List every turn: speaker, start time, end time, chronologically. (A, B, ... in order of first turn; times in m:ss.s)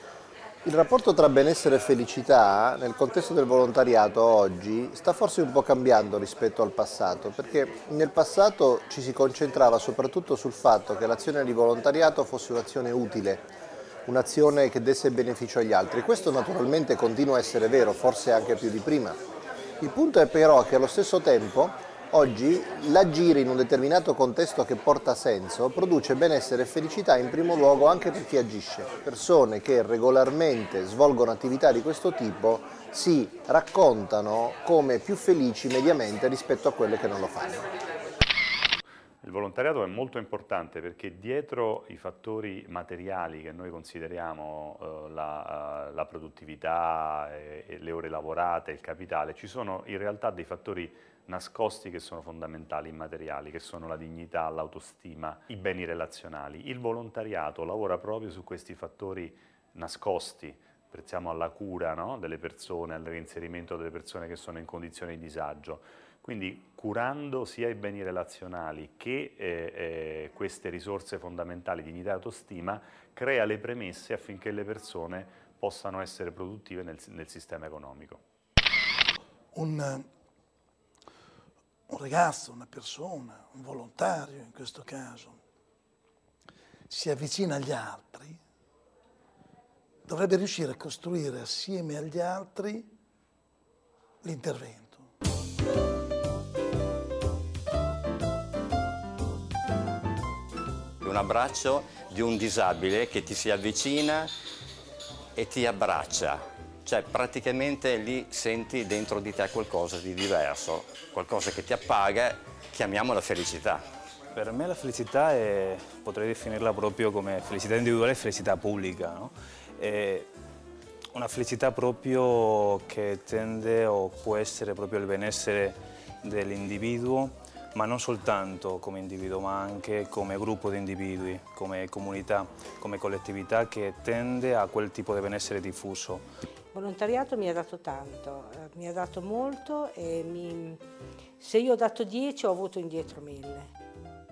0:00.6-0:13.5 A
0:14.1-0:19.2 A
0:19.8-0:37.6 A
0:39.2-1:18.2 B
1:19.5-1:20.1 C
1:21.9-1:25.4 C
1:26.9-1:28.4 C
1:30.0-1:32.9 C
1:34.2-1:35.0 C
1:41.0-1:44.3 D
1:45.3-1:53.8 D
1:54.3-2:00.3 E
2:01.1-2:16.2 E
2:16.7-2:20.8 F
2:21.4-2:23.7 F